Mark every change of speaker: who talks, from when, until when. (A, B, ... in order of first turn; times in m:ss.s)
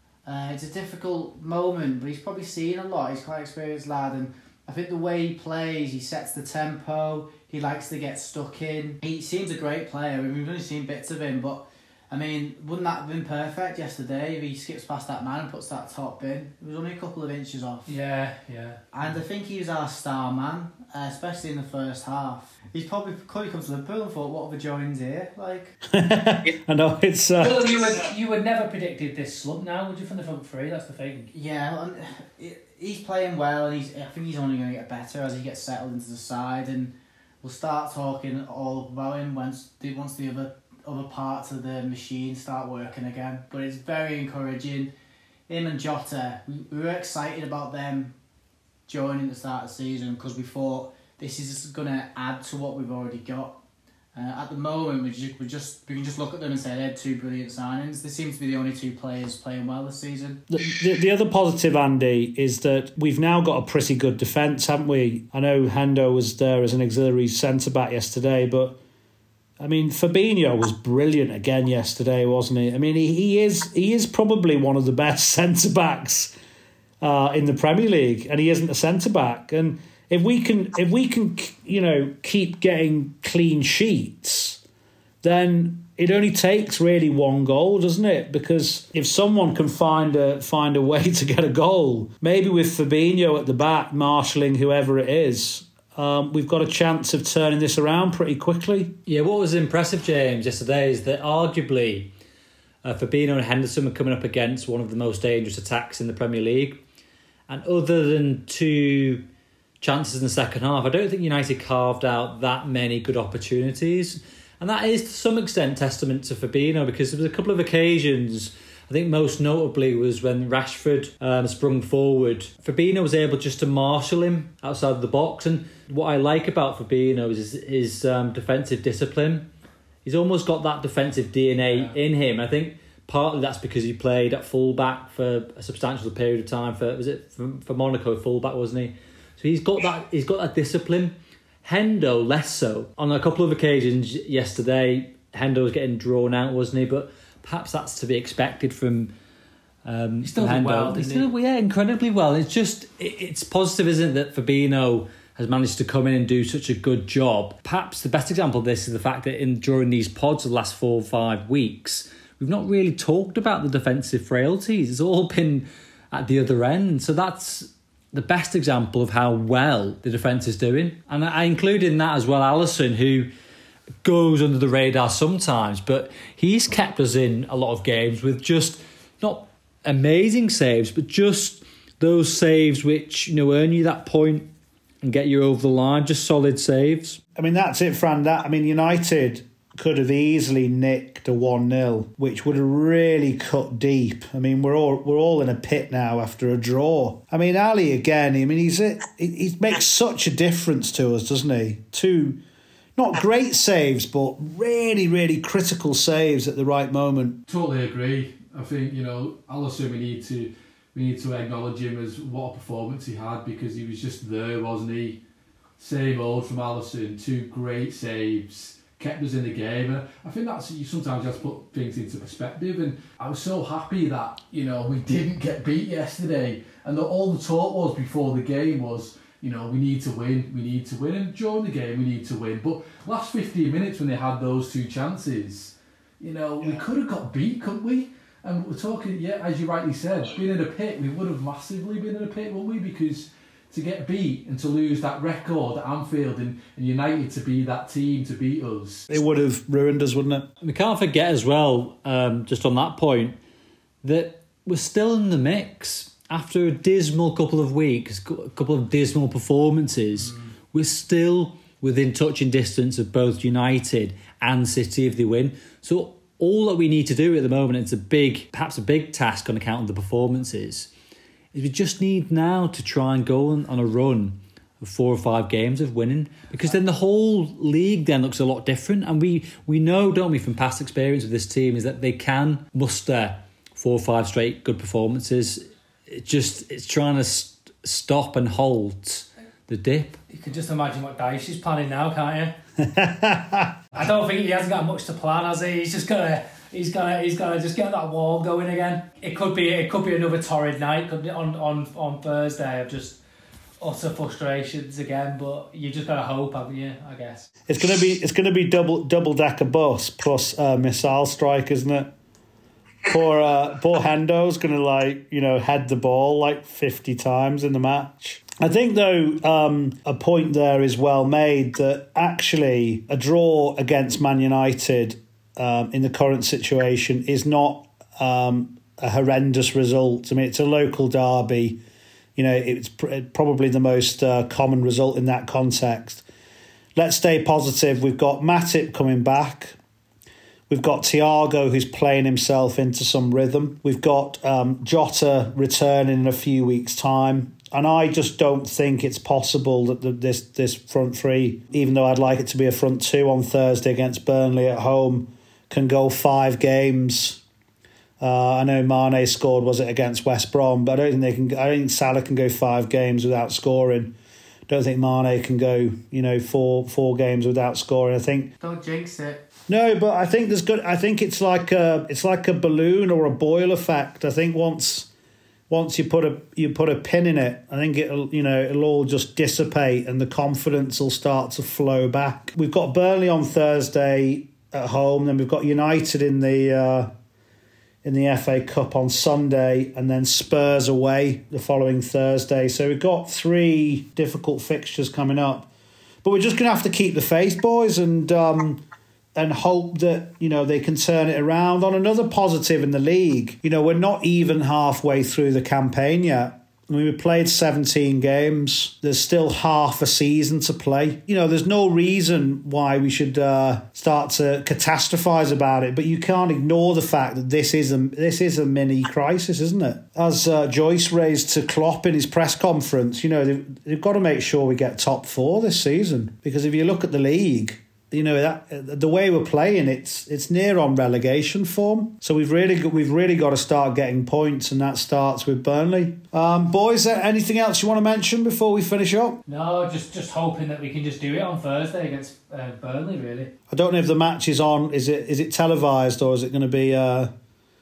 0:00.3-0:17.9 A
0:17.9-0:18.8 B
0:18.9-0:25.8 A
0:25.9-0:27.7 C
0:27.4-0:31.3 B
0:31.3-0:44.9 A
0:45.5-0:48.2 A
0:48.9-0:53.6 A
0:54.2-1:00.4 A
1:00.5-1:08.8 C
1:09.6-1:16.3 C
1:17.0-1:24.6 C
1:25.2-1:39.0 C
1:39.1-1:42.1 D
1:42.8-1:46.8 D
1:47.5-1:49.3 D
1:49.8-2:09.5 D
2:10.0-2:29.1 D
2:29.8-2:53.3 D
2:30.2-2:31.3 B
2:54.0-3:04.5 D
3:05.0-3:07.2 D
3:07.4-3:22.4 C
3:23.0-3:27.4 C
3:27.5-3:35.2 E
3:35.8-4:09.1 E
4:09.1-4:10.5 C
4:10.6-4:13.4 D
4:14.0-4:30.9 D
4:31.5-4:50.2 D
4:50.3-4:52.5 B
4:52.8-4:53.8 C
4:53.9-5:03.2 B
5:03.8-5:07.5 B
5:07.7-5:12.1 C
5:13.1-5:31.8 C
5:32.4-5:36.2 C
5:37.0-5:39.8 C
5:40.7-5:57.4 C
5:58.2-6:04.2 C
6:04.7-6:08.5 C
6:08.6-6:09.5 A
6:09.7-6:15.1 C
6:15.7-6:27.1 C
6:28.0-6:35.7 C
6:36.2-6:38.8 C
6:39.4-7:19.4 C
7:19.5-7:23.5 B
7:23.7-7:27.3 C